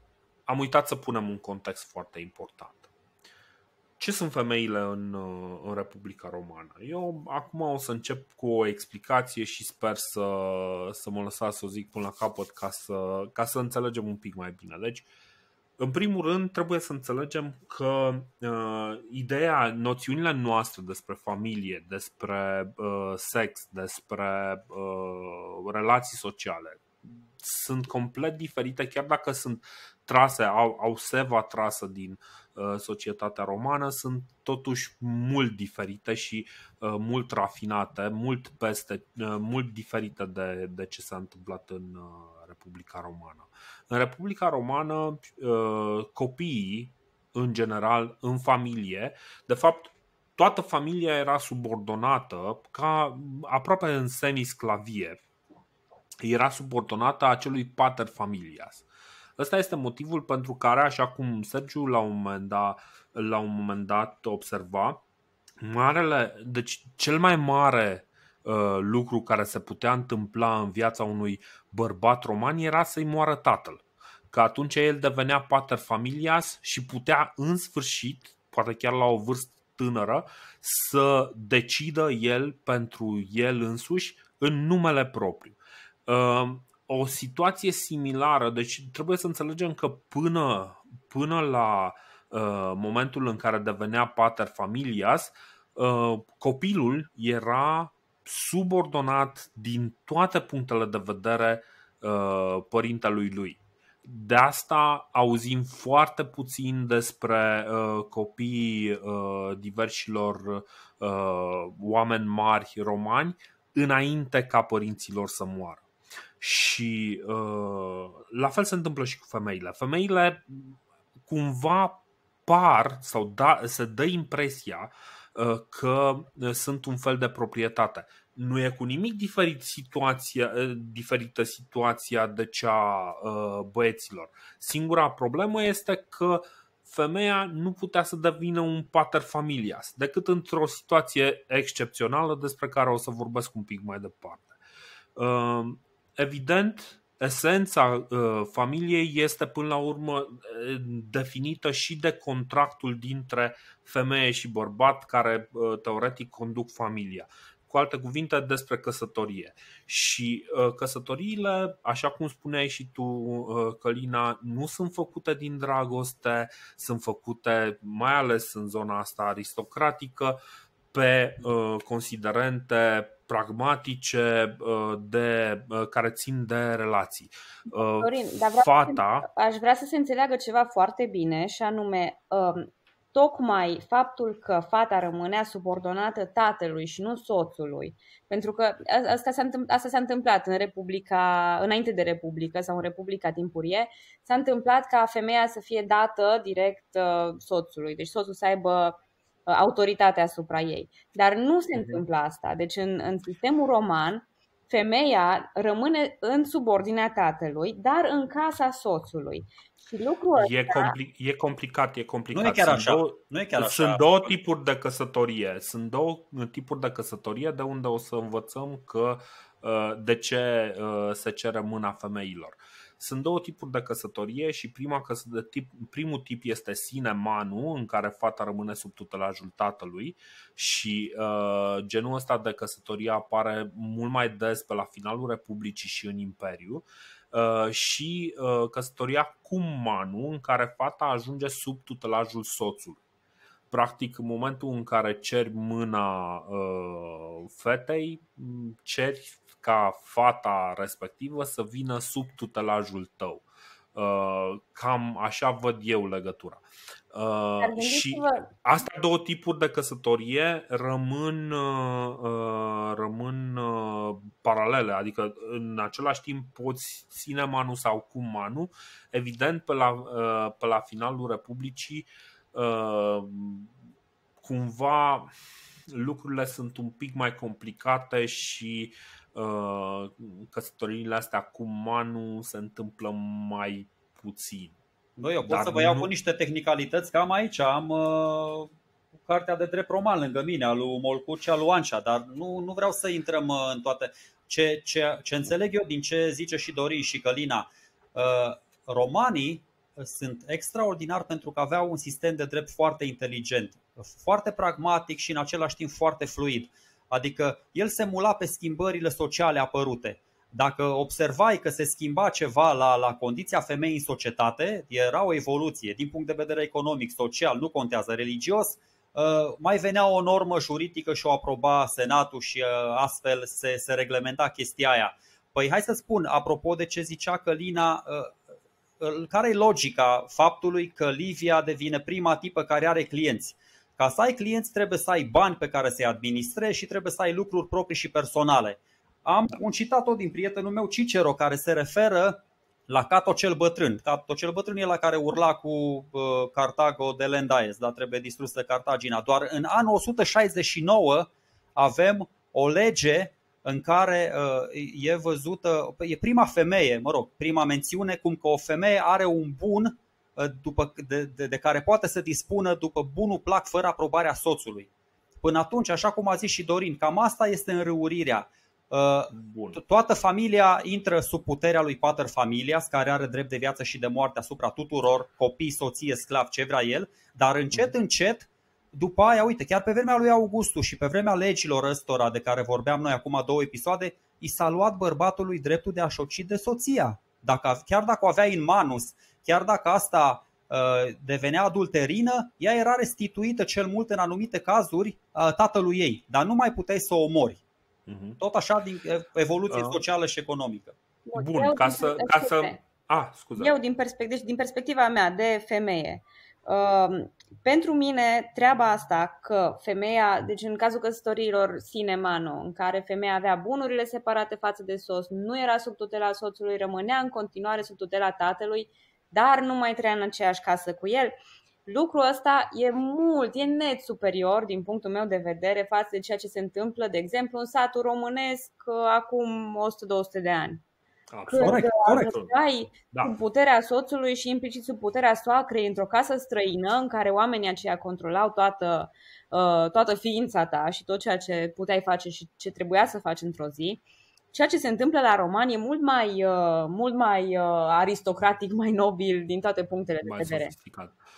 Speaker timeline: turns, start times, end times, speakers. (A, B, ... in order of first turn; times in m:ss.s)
0:00.5-0:02.9 A
0:04.0-0:15.1 A
0:15.8-0:55.2 A
0:56.2-0:58.8 A
0:59.4-1:05.0 A
1:05.6-1:55.8 A
1:56.4-2:24.6 A
2:25.2-2:50.4 A
2:50.9-2:59.3 A
2:57.7-3:30.9 B
3:21.7-3:22.0 A
3:30.3-4:03.0 A
3:32.3-3:34.3 C
4:03.7-4:33.7 A
4:17.6-4:18.5 B
4:34.4-4:35.3 A
4:35.9-4:44.8 A
4:45.2-5:28.4 C
4:45.4-4:46.1 A
5:29.0-6:37.6 C
6:09.3-6:09.8 A
6:38.1-6:38.4 A
6:38.4-6:40.9 C
6:39.7-6:40.0 A
6:41.3-6:42.8 B
6:41.3-6:43.7 A
6:43.6-7:10.8 B
7:11.3-7:12.5 A
7:11.5-7:24.0 B
7:11.6-7:12.3 C
7:24.5-7:30.7 B
7:30.2-7:31.2 A